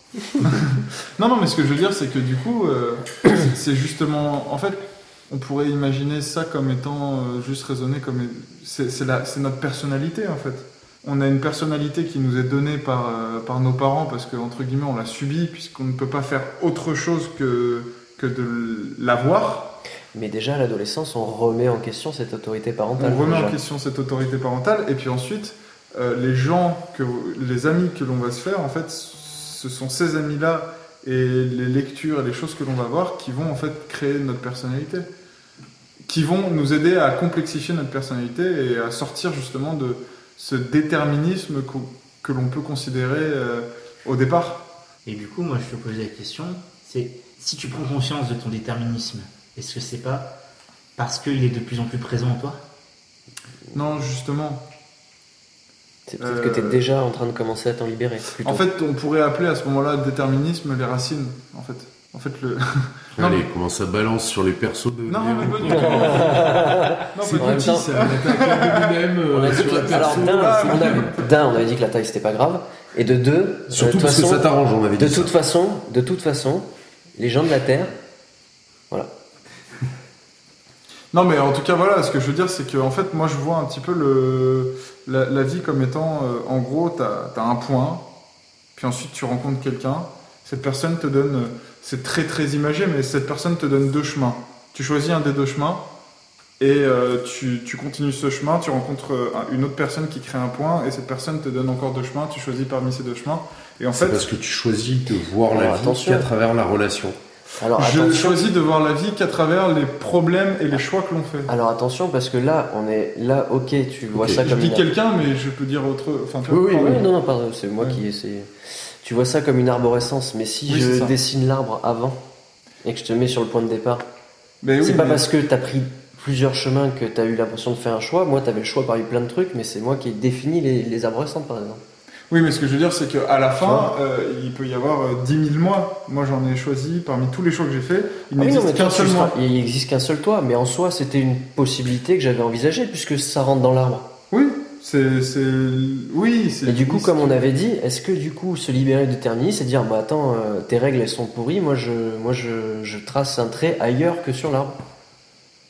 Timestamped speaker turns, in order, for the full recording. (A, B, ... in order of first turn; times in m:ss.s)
0:00.4-0:19.8 A
0:20.1-0:23.6 B
0:23.0-0:35.1 A
0:36.1-0:44.7 A
0:45.0-0:50.3 C
0:51.0-0:52.6 C
0:53.7-0:54.6 A
0:56.1-0:58.6 B
0:56.2-0:56.8 A
0:58.4-1:03.4 A
1:03.2-1:11.1 D
1:05.1-1:11.2 A
1:05.6-1:08.0 B
1:09.3-1:14.5 B
1:13.7-1:15.3 D
1:15.0-1:17.9 B
1:21.1-1:28.0 A
1:28.8-1:35.8 A
1:36.6-1:44.2 A
1:43.9-1:47.2 D
1:45.5-1:46.3 B
1:47.6-1:48.4 B
1:47.8-1:51.5 A
1:51.5-1:54.9 B
1:54.1-1:54.4 D
1:54.3-1:57.1 A
1:56.5-1:57.1 D
1:56.7-2:02.2 B
2:00.7-2:01.2 A
2:02.8-2:04.0 B
2:04.6-2:05.2 A
2:04.8-2:11.8 B
2:12.3-2:19.4 A
2:13.6-2:13.9 B
2:18.4-2:24.1 B
2:24.3-2:27.4 A
2:26.6-2:34.8 B